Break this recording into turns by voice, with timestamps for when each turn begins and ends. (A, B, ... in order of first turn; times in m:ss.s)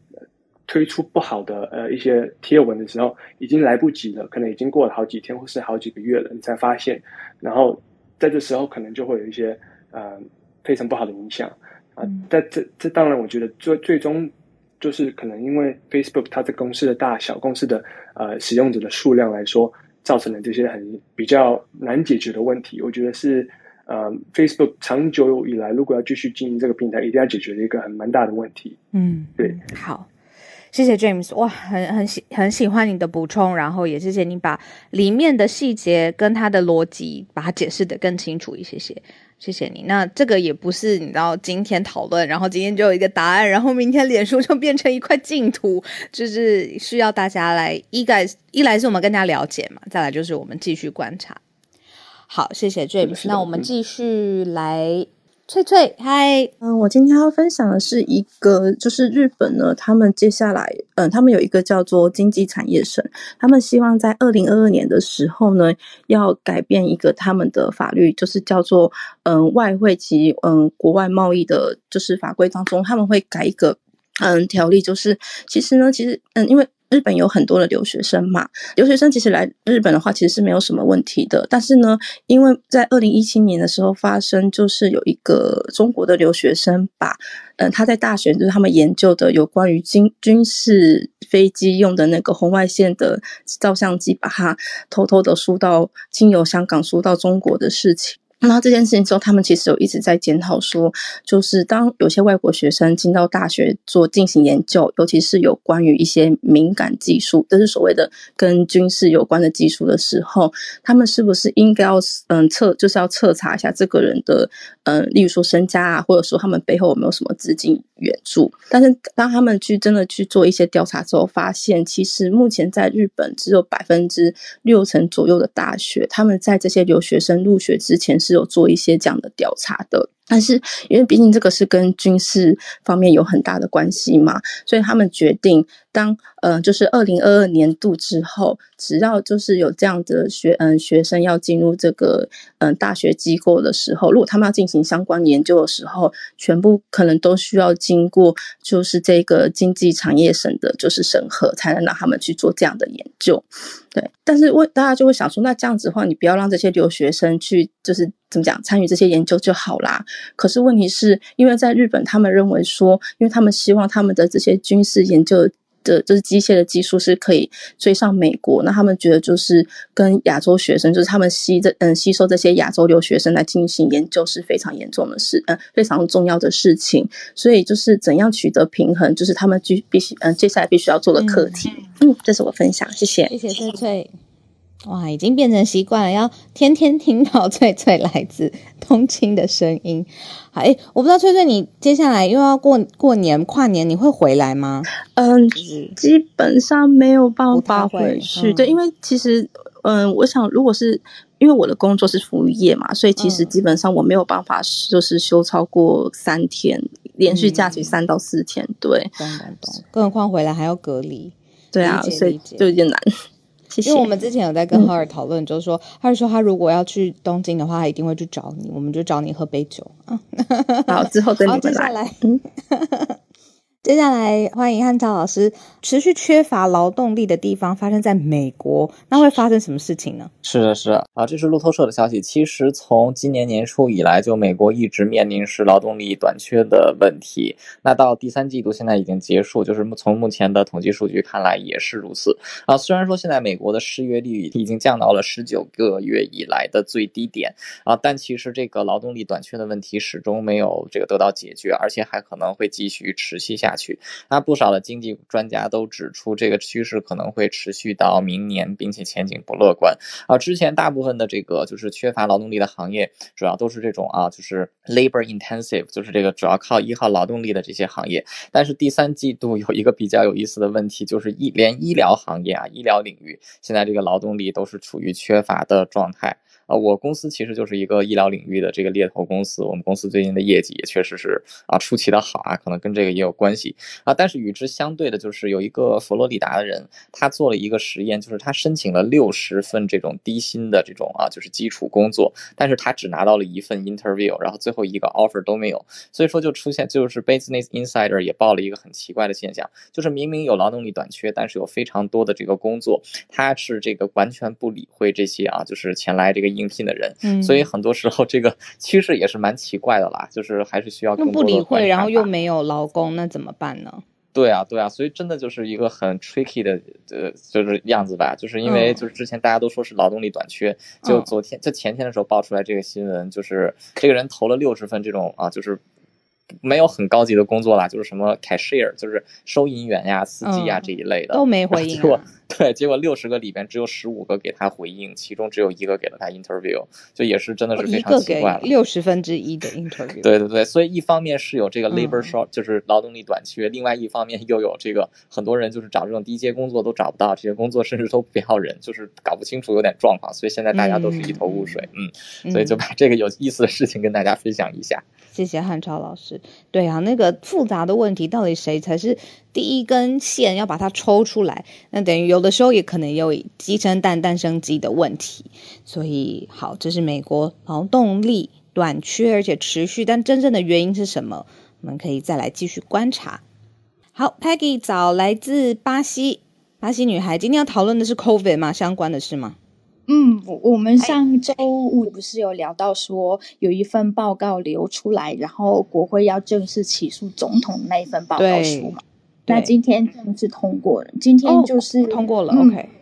0:00.7-0:28.8 A
0:12.0-0:12.3 B
0:28.9-0:30.1 B
0:30.7-0:51.4 B
0:52.3-0:56.5 B
0:53.0-0:53.7 A
0:56.6-3:03.3 C
3:01.2-3:01.5 B
3:03.3-3:04.1 B
3:04.8-3:14.9 B
3:15.1-3:29.2 C
3:15.5-3:16.0 B
3:17.5-3:18.8 B
3:23.2-3:23.5 B
3:27.3-3:28.0 B
3:29.2-3:32.7 B
3:31.7-3:33.1 C
3:33.7-3:34.1 C
3:33.8-3:43.2 B
3:40.9-3:42.4 C
3:43.8-3:50.3 B
3:50.4-5:12.3 D
5:07.2-5:07.7 B
5:11.2-5:14.0 B
5:14.3-5:25.8 D
5:18.6-5:19.0 B
5:21.0-5:21.3 B
5:26.6-5:38.7 D
5:30.4-5:32.3 B
5:37.8-5:40.3 B
5:40.2-5:55.0 D
5:41.9-5:42.3 B
5:50.7-5:51.8 B
5:52.4-5:52.8 B
5:55.3-6:13.4 B
6:14.1-6:19.6 B
6:20.1-6:32.8 E
6:28.4-6:29.0 B
6:29.5-6:29.7 B
6:31.4-6:32.9 B